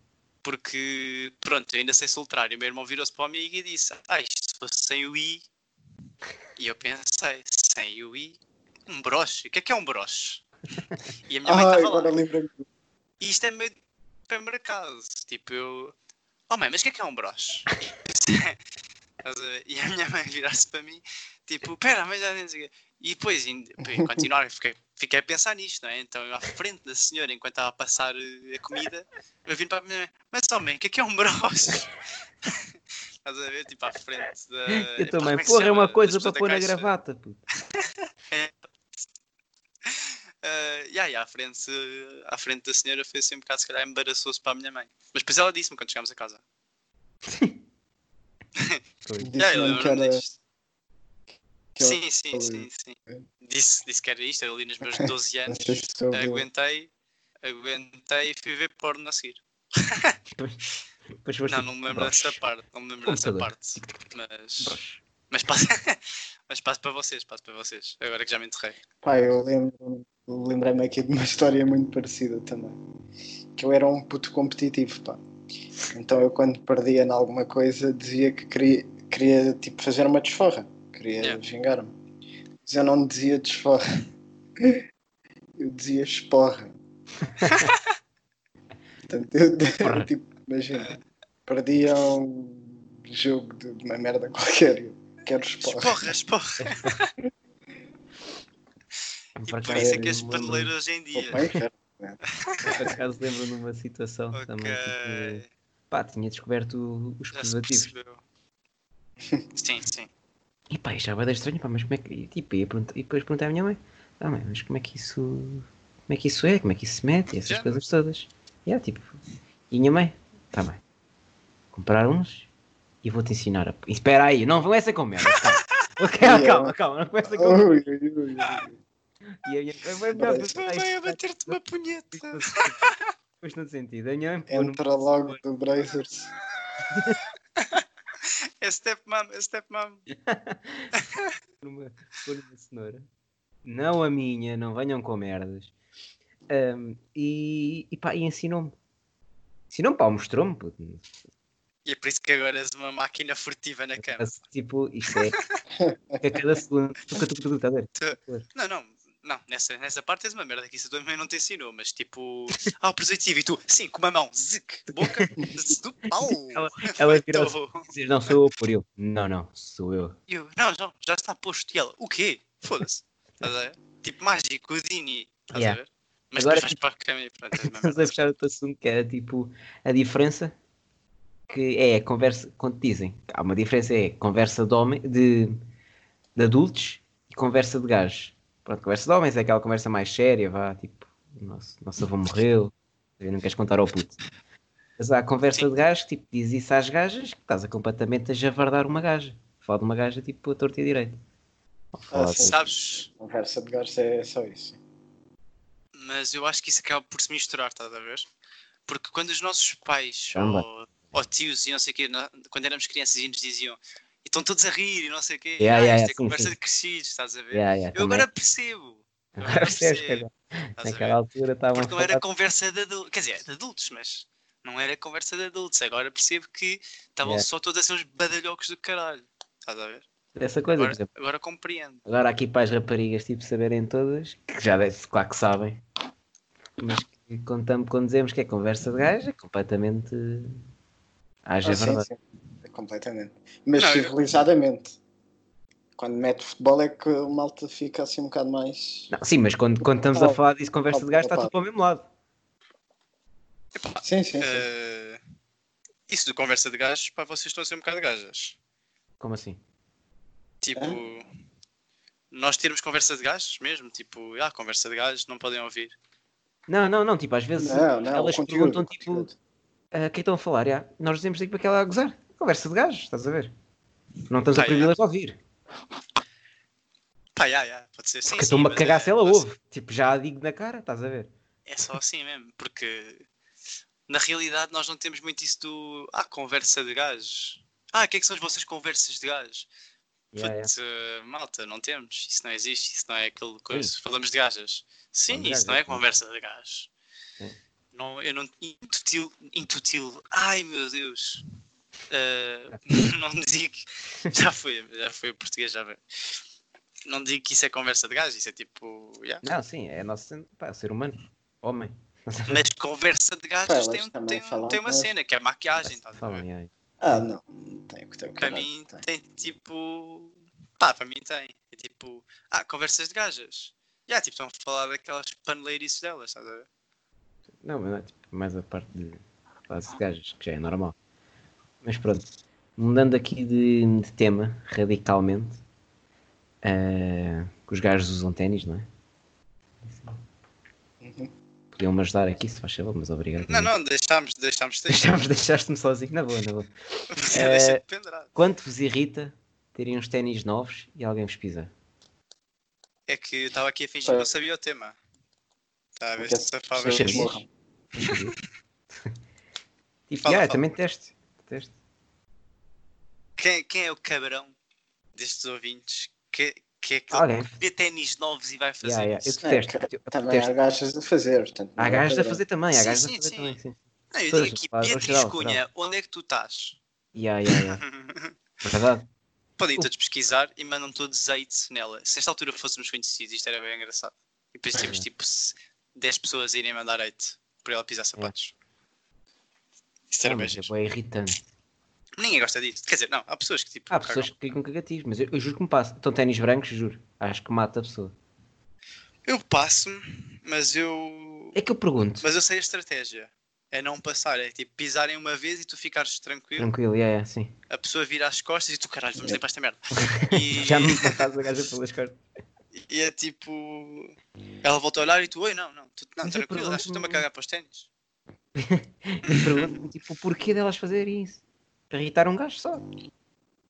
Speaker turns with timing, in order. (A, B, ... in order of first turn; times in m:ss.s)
0:00.4-0:05.4 A
0:06.6-0:10.4 A
0:11.3-0:12.2 A
0:11.5-0:12.7 B
0:13.2-0:13.7 A
0:14.3-0:16.0 A
0:16.5-0:18.6 A
0:19.2-0:32.7 A
0:33.2-0:36.9 A
0:34.7-0:37.4 C
0:37.8-0:38.6 A
0:39.9-0:46.4 A
0:47.3-0:47.6 C
0:49.1-0:49.4 C
0:49.2-0:50.2 B
0:49.4-0:50.4 A
0:51.8-0:53.2 B
0:51.8-0:56.9 A
0:55.0-0:56.4 B
0:57.4-1:00.2 A
1:01.2-1:02.4 C
1:01.5-1:04.8 A
1:03.0-1:04.0 C
1:04.6-1:05.0 C
1:05.3-1:08.8 A
1:09.0-1:12.8 B
1:13.6-1:15.2 B
1:15.9-1:22.0 B
1:22.6-1:23.8 B
1:25.6-1:26.7 B
1:27.4-1:27.7 C
1:27.4-1:27.8 A
1:29.1-1:31.0 B
1:29.8-1:30.1 C
1:31.5-1:36.1 B
1:35.6-1:37.1 A
1:36.6-1:37.0 C
1:39.4-1:40.7 C
1:39.5-1:41.4 A
1:39.7-1:40.2 B
1:41.1-1:42.9 B
1:42.4-1:42.8 A
1:42.6-1:47.9 C
1:44.3-1:45.5 A
1:47.3-1:48.2 A
1:49.6-1:50.1 A
1:50.7-1:59.2 C
1:57.5-1:57.8 A
1:59.7-2:00.8 C
2:01.7-2:02.5 C
2:03.0-2:07.7 C
2:06.2-2:06.8 B
2:07.3-2:08.8 B
2:09.4-2:11.6 C
2:10.2-2:10.5 B
2:10.4-2:13.0 A
2:12.1-2:12.7 C
2:13.4-2:15.4 C
2:14.5-2:16.3 B
2:16.9-2:17.2 C
2:17.6-2:20.0 A
2:20.1-2:20.9 C
2:21.0-2:21.3 A
2:21.6-2:23.1 C
2:23.6-2:25.7 C
2:26.5-2:28.8 C
2:29.7-2:31.1 C
2:31.8-2:34.4 A
2:34.0-2:35.4 C
2:35.1-2:35.5 A
2:35.8-2:36.2 B
2:36.2-2:38.4 C
2:38.0-2:47.9 A
2:44.9-2:45.5 C
2:46.2-2:50.2 C
2:50.3-2:58.2 A
2:55.5-2:55.8 C
2:56.4-2:56.8 C
2:57.6-3:00.6 C
3:01.5-3:05.6 C
3:06.4-3:14.2 C
3:15.0-3:21.2 C
3:21.9-3:22.6 C
3:22.1-3:24.8 B
3:22.4-3:23.1 A
3:26.0-3:28.3 A
3:28.9-3:40.3 A
3:30.3-3:30.7 C
3:35.6-3:36.6 C
3:37.5-3:38.3 C
3:39.4-3:42.2 C
3:40.8-3:41.2 A
3:41.7-3:50.0 A
3:50.4-3:51.1 C
3:50.7-3:52.0 A
3:52.0-3:55.8 C
3:56.8-4:00.6 C
4:01.4-4:02.1 C
4:01.6-4:05.0 B
4:03.8-4:04.1 A
4:06.0-4:09.1 B
4:09.1-4:12.1 C
4:10.1-4:10.4 B
4:10.9-4:11.6 B
4:13.8-4:15.2 A
4:14.0-4:14.7 B
4:16.1-4:18.6 A
4:19.2-4:19.6 C
4:20.6-4:21.2 A
4:22.3-4:25.9 A
4:26.7-4:29.3 C
4:27.6-4:29.3 B
4:29.9-4:33.5 C
4:34.3-4:35.4 C
4:34.5-4:35.0 A
4:37.4-4:39.4 A
4:38.3-4:41.3 C
4:41.7-4:43.3 A
4:44.1-4:49.7 A
4:50.3-4:50.7 C
4:50.4-4:56.9 A
4:55.3-4:56.2 C
4:57.9-5:01.4 A
5:02.1-5:06.4 A
5:07.0-5:09.4 A
5:09.4-5:12.6 C
5:12.5-5:16.4 A
5:13.7-5:15.1 B
5:15.8-5:17.2 C
5:17.0-5:19.0 B
5:18.4-5:26.7 A
5:27.6-5:31.0 C
5:31.8-5:35.6 C
5:36.6-5:38.9 C
5:39.8-5:40.2 C
5:41.0-5:41.3 B
5:41.7-5:43.7 C
5:43.4-5:45.1 A
5:44.9-5:47.8 C
5:47.1-5:48.3 A
5:48.4-5:51.7 C
5:53.1-5:55.0 A
5:56.0-5:57.3 A
5:56.2-5:57.5 B
5:56.8-5:57.4 C
5:58.0-5:58.4 C
6:00.1-6:01.7 C
6:00.2-6:00.6 A
6:03.4-6:04.5 A
6:05.2-6:09.4 A
6:07.1-6:07.5 C
6:08.8-6:10.5 C
6:09.4-6:12.4 B
6:11.8-6:13.8 C
6:12.7-6:13.6 A
6:14.1-6:16.8 A
6:14.3-6:15.6 C
6:17.2-6:17.8 C
6:17.5-6:18.3 A
6:18.6-6:19.1 C
6:19.6-6:28.5 A
6:24.7-6:25.1 C
6:30.1-6:30.7 A
6:30.2-6:31.4 C
6:32.2-6:34.3 A
6:33.9-6:38.1 C
6:39.3-6:41.6 A
6:41.6-6:42.3 C
6:42.2-6:46.7 A
6:46.6-6:47.5 C
6:47.7-6:51.2 A
6:49.9-6:52.2 C
6:52.8-6:57.9 A
6:56.2-6:57.2 C
6:58.6-7:02.8 C
6:59.3-6:59.7 A